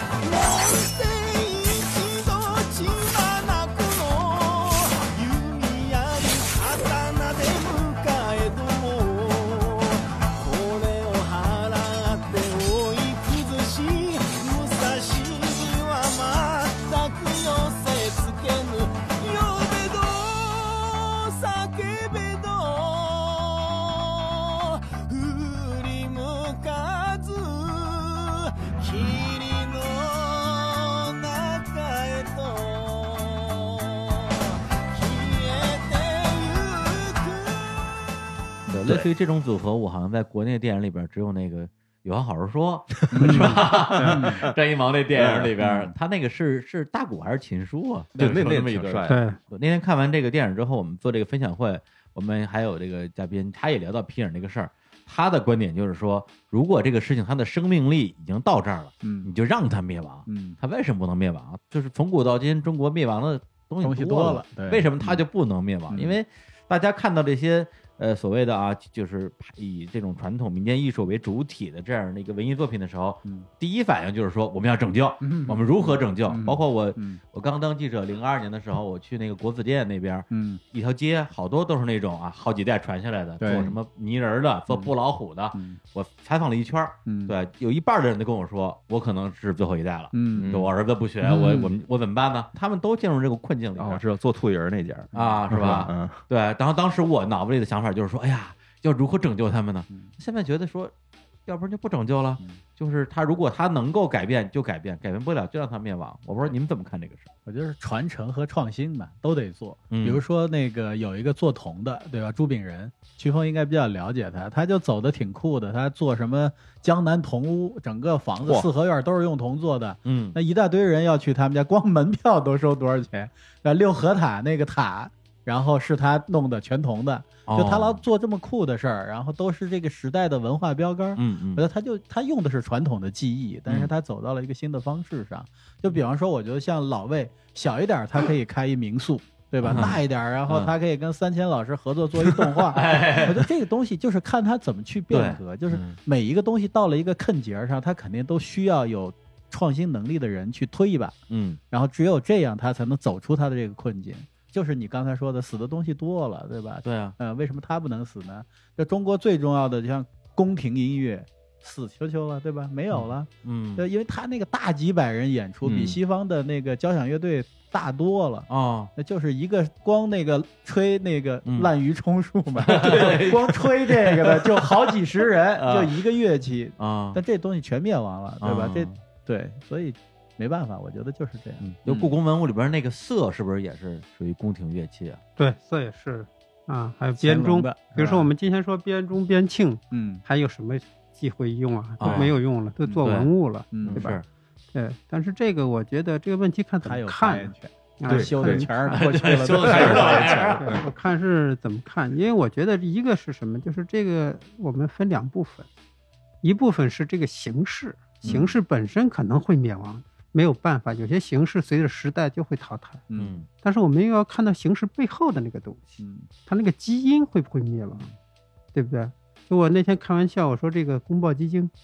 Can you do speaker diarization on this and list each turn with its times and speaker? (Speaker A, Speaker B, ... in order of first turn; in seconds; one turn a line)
Speaker A: 0.2-37.9
Speaker B: 38.7-39.0
Speaker C: 38.7-94.0
Speaker D: 43.1-44.5
Speaker B: 43.1-44.5
Speaker D: 45.1-45.5
Speaker B: 45.6-45.9
Speaker B: 48.1-48.6
Speaker D: 48.2-49.2
Speaker E: 49.1-49.4
Speaker B: 59.0-59.3
Speaker B: 60.3-60.6
Speaker B: 63.8-65.2
Speaker B: 65.9-66.2
Speaker B: 75.2-77.2
Speaker B: 80.3-80.6
Speaker B: 83.4-83.8
Speaker B: 84.7-84.9
Speaker B: 85.5-85.8
Speaker B: 87.1-87.3
Speaker B: 90.1-90.6
Speaker D: 90.4-90.7
Speaker B: 91.2-91.7
Speaker D: 93.8-96.2
Speaker B: 95.1-95.8
Speaker C: 95.1-100.9
Speaker C: 101.5-107.3
Speaker B: 107.5-151.2
Speaker C: 109.9-110.2
Speaker D: 118.4-118.7
Speaker C: 120.0-120.4
Speaker C: 127.5-128.0
Speaker C: 131.2-131.7
Speaker C: 133.7-133.9
Speaker C: 139.6-140.7
Speaker C: 142.2-143.5
Speaker C: 145.1-146.0
Speaker C: 151.3-151.6
Speaker B: 151.7-182.1
Speaker C: 156.8-157.2
Speaker C: 162.9-163.9
Speaker D: 165.6-166.0
Speaker C: 168.5-168.9
Speaker C: 171.5-171.7
Speaker C: 172.6-174.9
Speaker C: 175.6-176.0
Speaker C: 176.8-177.2
Speaker C: 178.4-179.0
Speaker C: 181.6-185.2
Speaker E: 185.4-194.2
Speaker B: 187.2-188.3
Speaker B: 189.9-190.2
Speaker C: 192.0-194.2
Speaker B: 192.1-192.3
Speaker B: 193.7-194.1
Speaker E: 194.7-199.0
Speaker B: 196.8-200.8
Speaker D: 198.1-198.7
Speaker C: 198.9-200.8
Speaker D: 199.6-200.6
Speaker E: 199.8-205.7
Speaker E: 206.4-213.0
Speaker B: 213.1-213.3
Speaker C: 213.2-213.5
Speaker E: 213.6-218.1
Speaker B: 216.0-216.3
Speaker E: 218.8-221.7